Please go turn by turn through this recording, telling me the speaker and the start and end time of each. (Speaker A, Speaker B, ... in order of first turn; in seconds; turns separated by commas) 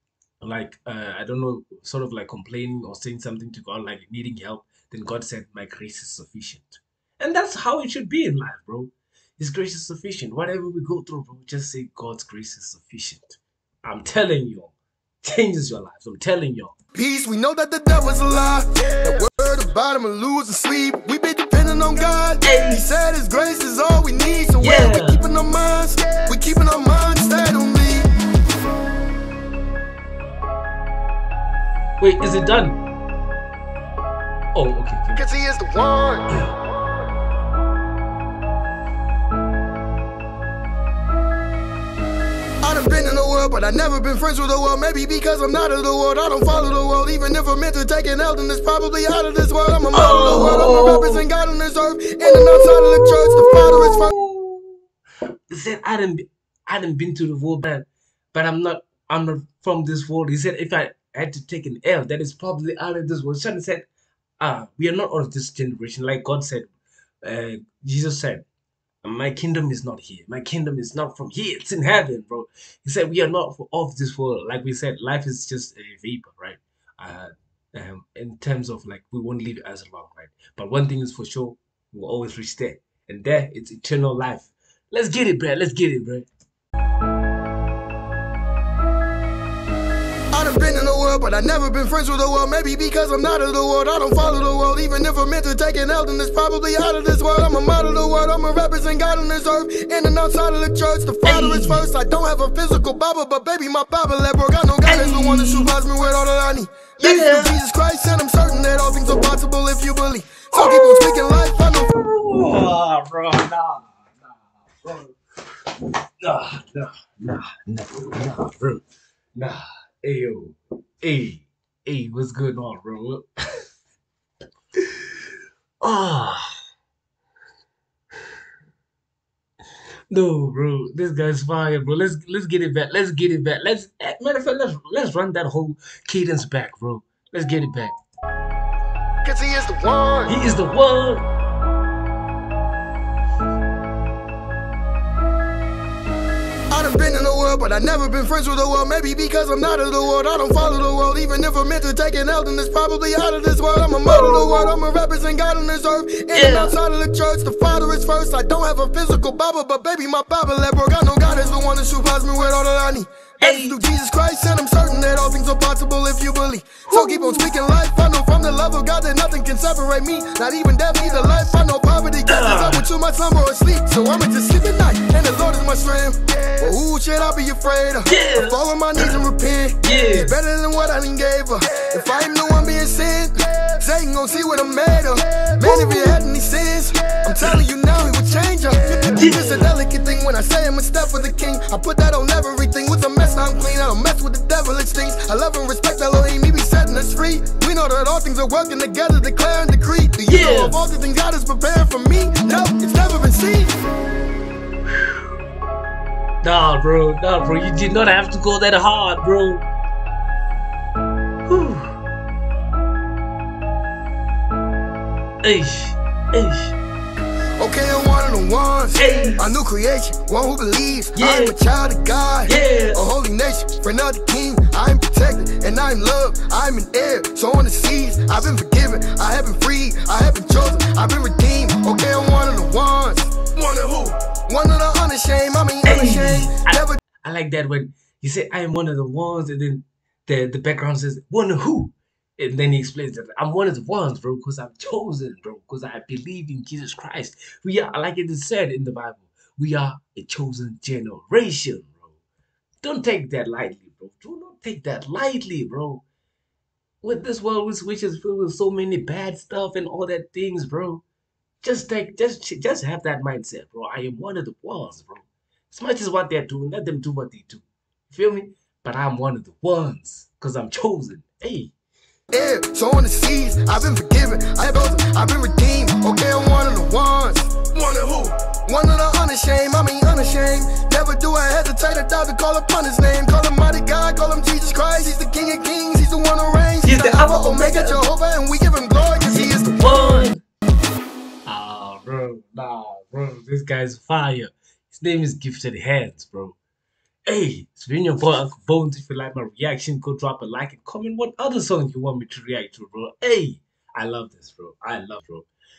Speaker A: 0.4-16.7, Speaker B: 16.9-28.1, Speaker A: 22.4-22.9, Speaker A: 24.6-25.2, Speaker A: 32.0-32.8, Speaker A: 34.5-35.2, Speaker B: 35.1-36.3, Speaker B: 42.6-54.1, Speaker A: 49.9-51.2, Speaker A: 52.3-54.8, Speaker A: 55.5-63.9, Speaker A: 64.4-66.7, Speaker A: 67.2-68.5, Speaker A: 69.0-86.3, Speaker B: 90.3-111.9, Speaker A: 101.2-101.8, Speaker A: 104.8-105.7, Speaker A: 107.0-107.6, Speaker A: 110.5-111.2, Speaker A: 111.8-115.2, Speaker A: 115.8-118.8, Speaker A: 119.3-123.2, Speaker A: 124.8-125.1, Speaker A: 125.8-126.5, Speaker A: 130.1-137.9, Speaker B: 139.2-140.3, Speaker A: 140.3-141.3, Speaker B: 146.7-203.7, Speaker A: 154.1-154.7, Speaker A: 156.3-156.8, Speaker A: 163.4-163.8, Speaker A: 166.9-167.5, Speaker A: 172.3-172.8, Speaker A: 178.1-179.1, Speaker A: 179.8-180.3, Speaker A: 185.6-186.2, Speaker A: 189.2-189.7, Speaker A: 200.3-200.8, Speaker A: 206.4-209.7, Speaker A: 211.5-211.9, Speaker A: 215.4-216.8, Speaker B: 217.6-237.0, Speaker A: 219.0-219.5, Speaker A: 221.2-221.5, Speaker A: 222.5-223.0, Speaker A: 235.8-252.2, Speaker A: 252.8-256.0, Speaker A: 257.0-261.0, Speaker A: 261.6-271.7, Speaker B: 272.3-290.3, Speaker A: 286.8-288.0, Speaker A: 289.3-290.4, Speaker A: 291.5-296.6, Speaker A: 297.3-305.5